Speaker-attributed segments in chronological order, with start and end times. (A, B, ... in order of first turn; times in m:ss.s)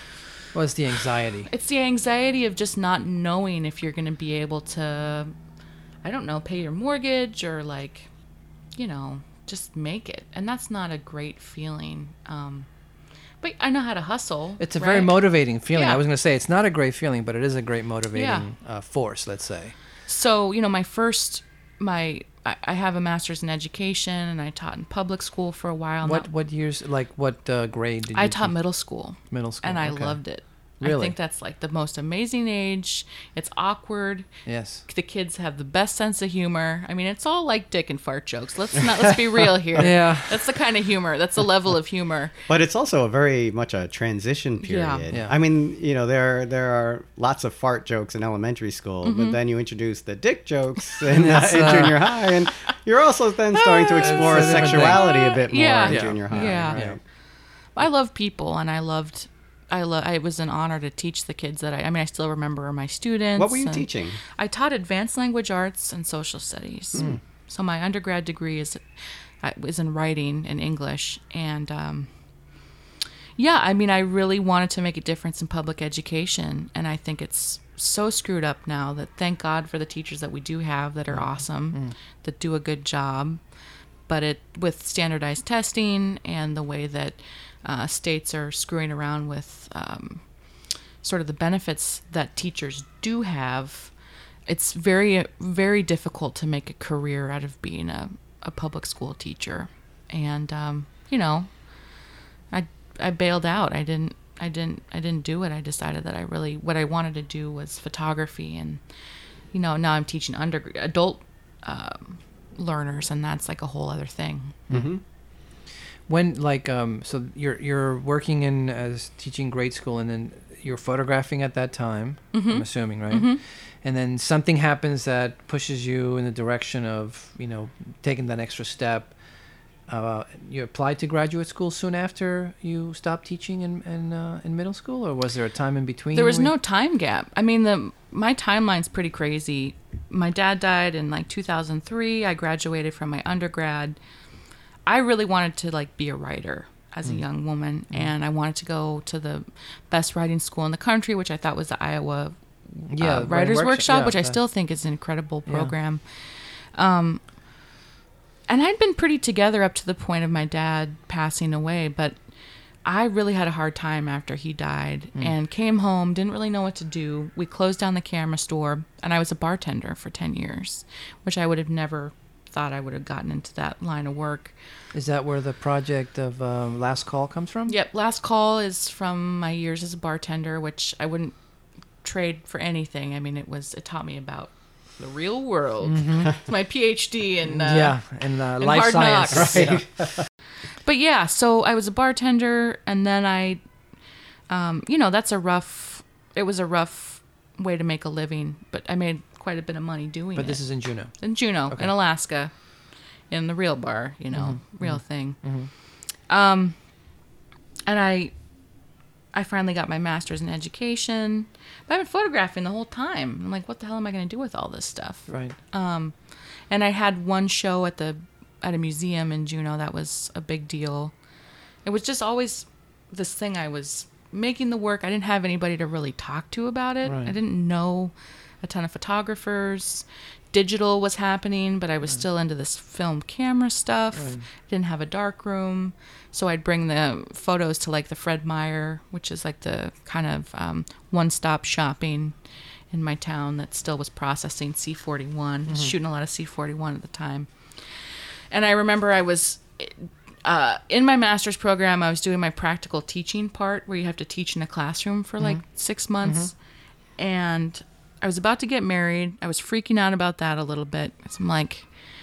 0:00.5-0:01.5 A
0:01.5-0:05.3 B
0:06.0-0:08.1 B
0:08.8-0:12.7 B
0:13.4-0:15.2 B
0:14.6-0:19.8 A
0:15.7-0:16.0 B
0:18.1-0:18.5 B
0:20.1-0:26.3 B
0:26.0-0:28.6 A
0:28.1-0:34.3 B
0:29.3-0:30.2 A
0:30.8-0:31.1 A
0:34.4-0:34.8 A
0:34.8-0:42.4 B
0:39.8-0:40.4 A
0:42.5-0:57.0 C
0:44.6-0:45.1 B
0:49.0-0:49.4 B
0:51.1-0:52.2 A
0:53.7-0:57.0 B
0:54.0-0:55.1 A
0:55.7-0:57.0 A
0:57.8-1:08.8 B
1:03.4-1:04.2 C
1:09.4-1:12.1 B
1:13.4-1:23.4 B
1:21.1-1:21.9 A
1:24.1-1:33.9 B
1:34.5-1:42.0 B
1:42.5-1:48.8 B
1:49.5-1:54.6 B
1:54.7-1:55.0 C
1:56.1-2:09.2 A
2:02.3-2:03.4 B
2:09.9-2:16.5 A
2:16.1-2:24.0 B
2:24.9-2:37.2 B
2:32.9-2:34.4 A
2:35.5-2:35.7 A
2:38.5-2:42.2 B
2:42.8-2:54.6 B
2:54.9-2:57.7 A
2:57.7-3:01.4 B
3:02.0-3:09.7 B
3:05.8-3:06.3 A
3:07.5-3:09.9 A
3:09.3-3:10.2 C
3:10.8-3:13.6 B
3:14.5-3:22.7 B
3:20.4-3:21.9 A
3:23.3-3:25.7 B
3:24.3-3:25.7 A
3:26.2-3:26.8 B
3:27.9-3:28.4 B
3:29.3-3:36.2 B
3:35.3-3:35.6 A
3:36.7-3:41.1 B
3:41.8-4:02.4 B
3:47.0-3:47.4 A
3:54.2-3:54.4 A
4:02.9-4:16.6 B
4:05.7-4:05.9 A
4:16.2-4:16.5 A
4:17.2-4:21.9 B